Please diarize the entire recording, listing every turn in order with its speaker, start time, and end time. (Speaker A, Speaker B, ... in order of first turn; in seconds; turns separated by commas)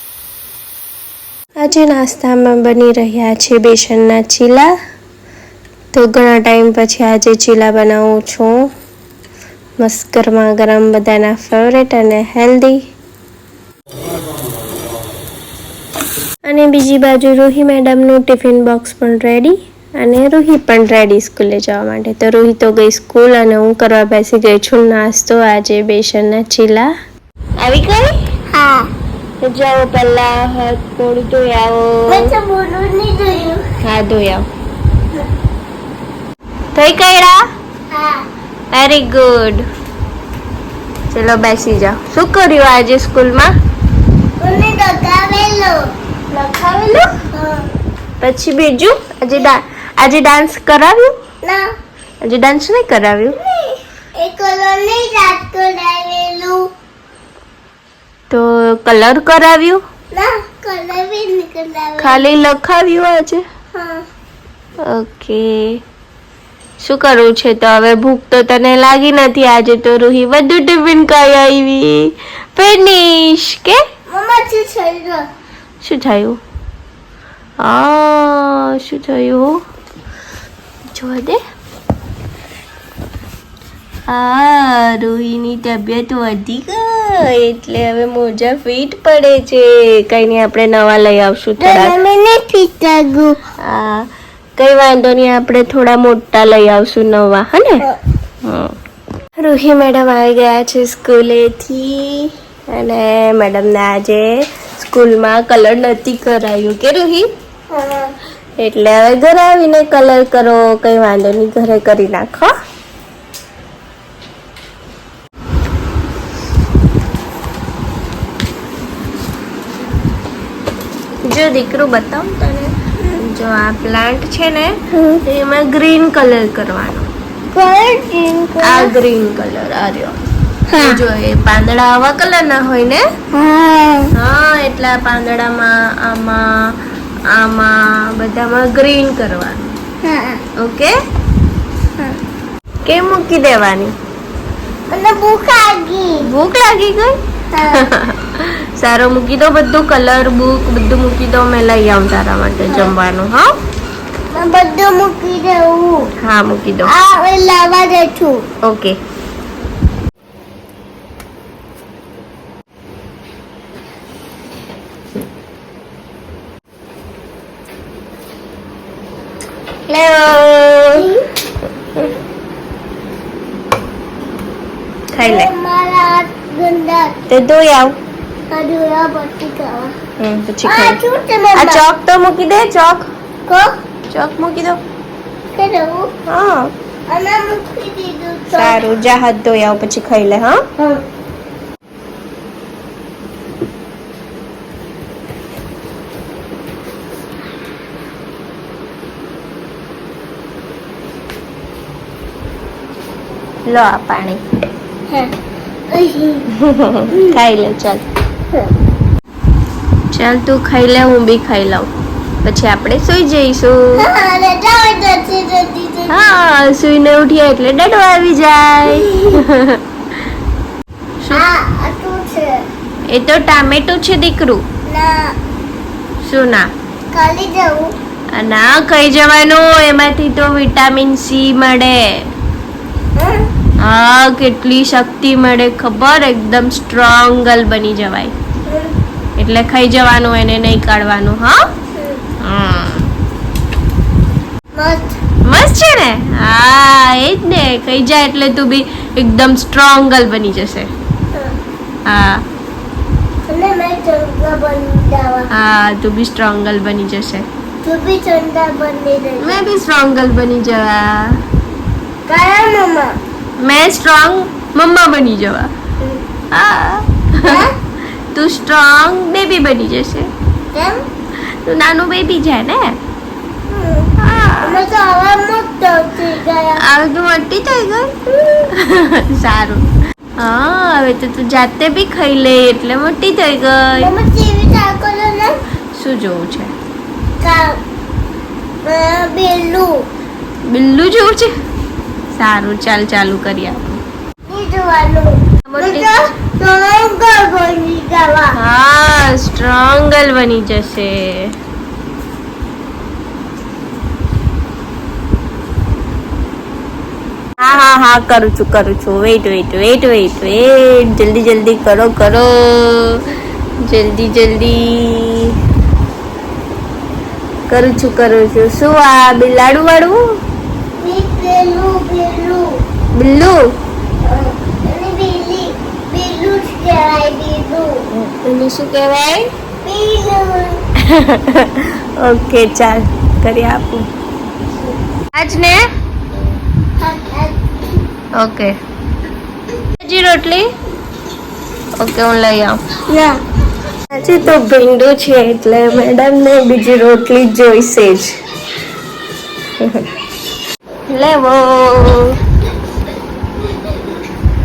Speaker A: 1.6-4.7, Speaker A: 5.9-8.5, Speaker A: 9.8-12.8, Speaker A: 16.4-26.9, Speaker A: 27.6-28.1, Speaker B: 28.5-28.9, Speaker A: 29.4-32.3, Speaker B: 32.1-33.7, Speaker A: 33.8-34.5, Speaker A: 36.8-37.4, Speaker B: 37.9-38.2, Speaker A: 38.7-39.7, Speaker A: 41.1-43.5, Speaker B: 44.4-47.6, Speaker A: 46.4-46.9, Speaker A: 48.2-51.1, Speaker B: 51.4-51.7, Speaker A: 52.2-53.4, Speaker B: 53.4-56.7, Speaker A: 58.3-59.8, Speaker B: 60.1-62.2, Speaker A: 62.0-63.4, Speaker B: 63.7-64.0, Speaker A: 64.9-65.8, Speaker A: 66.8-73.8, Speaker B: 74.1-75.3, Speaker A: 75.8-76.4, Speaker A: 77.6-79.5, Speaker A: 80.9-81.4, Speaker A: 84.1-92.0, Speaker B: 91.6-93.4, Speaker A: 93.6-97.8, Speaker A: 98.4-98.7, Speaker A: 99.4-107.3, Speaker B: 107.7-108.1, Speaker A: 108.6-112.5, Speaker A: 121.2-127.1, Speaker B: 124.9-125.2, Speaker B: 127.5-128.9, Speaker A: 128.6-130.2, Speaker B: 130.7-131.0, Speaker A: 130.8-133.1, Speaker B: 133.3-134.1, Speaker A: 134.1-136.4, Speaker A: 137.3-139.7, Speaker B: 140.0-140.5, Speaker A: 140.6-140.9, Speaker A: 142.8-143.9, Speaker B: 144.9-146.2, Speaker A: 146.2-147.2, Speaker B: 147.5-147.9, Speaker A: 147.7-153.5, Speaker B: 152.7-152.9, Speaker B: 154.3-156.1, Speaker A: 156.2-156.9, Speaker B: 156.8-158.4, Speaker A: 158.7-159.0, Speaker A: 169.9-171.1, Speaker B: 170.9-171.3, Speaker A: 175.1-175.5, Speaker B: 175.2-177.2, Speaker A: 177.3-178.0, Speaker B: 178.5-179.9, Speaker A: 180.2-181.0, Speaker B: 180.6-181.8, Speaker A: 181.6-183.1, Speaker B: 183.5-183.7, Speaker A: 184.1-184.8, Speaker B: 185.5-186.1, Speaker A: 186.3-186.7, Speaker B: 187.1-188.8, Speaker A: 188.5-190.6, Speaker B: 190.8-191.0, Speaker A: 203.7-204.4, Speaker B: 205.1-205.3, Speaker B: 205.9-206.5, Speaker A: 206.5-208.0, Speaker B: 207.1-207.4, Speaker A: 210.1-211.9, Speaker A: 212.4-214.1, Speaker B: 214.0-216.3, Speaker A: 216.1-219.8, Speaker B: 219.0-219.4, Speaker A: 221.2-221.5, Speaker B: 221.3-222.7, Speaker A: 223.1-224.6, Speaker B: 224.9-225.3, Speaker A: 226.2-226.7, Speaker B: 227.1-227.9, Speaker A: 228.3-232.2, Speaker B: 233.2-233.5, Speaker A: 233.8-238.3, Speaker B: 238.7-238.9, Speaker A: 239.4-241.6, Speaker B: 241.9-242.2, Speaker A: 242.4-243.1, Speaker B: 244.8-245.2, Speaker A: 245.4-250.9, Speaker A: 252.1-252.4, Speaker B: 253.5-255.5, Speaker A: 255.5-257.5, Speaker B: 257.8-259.6, Speaker A: 259.4-261.4, Speaker B: 262.2-263.2, Speaker A: 263.6-265.7, Speaker A: 266.5-267.6, Speaker B: 267.4-267.8, Speaker A: 268.3-270.3, Speaker B: 270.7-271.0, Speaker A: 271.6-273.0, Speaker B: 273.7-276.8, Speaker A: 274.2-274.8, Speaker A: 276.8-279.9, Speaker A: 280.4-284.1, Speaker B: 284.0-285.6, Speaker A: 285.9-286.7, Speaker B: 287.4-287.8, Speaker B: 288.8-290.0, Speaker A: 290.7-291.5, Speaker A: 292.3-294.0, Speaker B: 294.5-298.6, Speaker A: 295.7-296.1, Speaker A: 298.5-301.5, Speaker A: 307.6-313.2, Speaker A: 313.8-315.6, Speaker A: 317.7-320.2, Speaker B: 321.0-322.8, Speaker A: 323.1-323.6, Speaker B: 324.2-328.0, Speaker A: 328.1-329.5, Speaker B: 329.8-330.8, Speaker A: 331.0-334.1, Speaker A: 335.4-335.8, Speaker B: 337.0-338.0, Speaker A: 338.4-338.7, Speaker A: 340.0-340.7, Speaker A: 342.0-342.8, Speaker B: 343.1-343.4, Speaker A: 344.1-348.3, Speaker A: 349.8-350.1, Speaker A: 351.1-352.4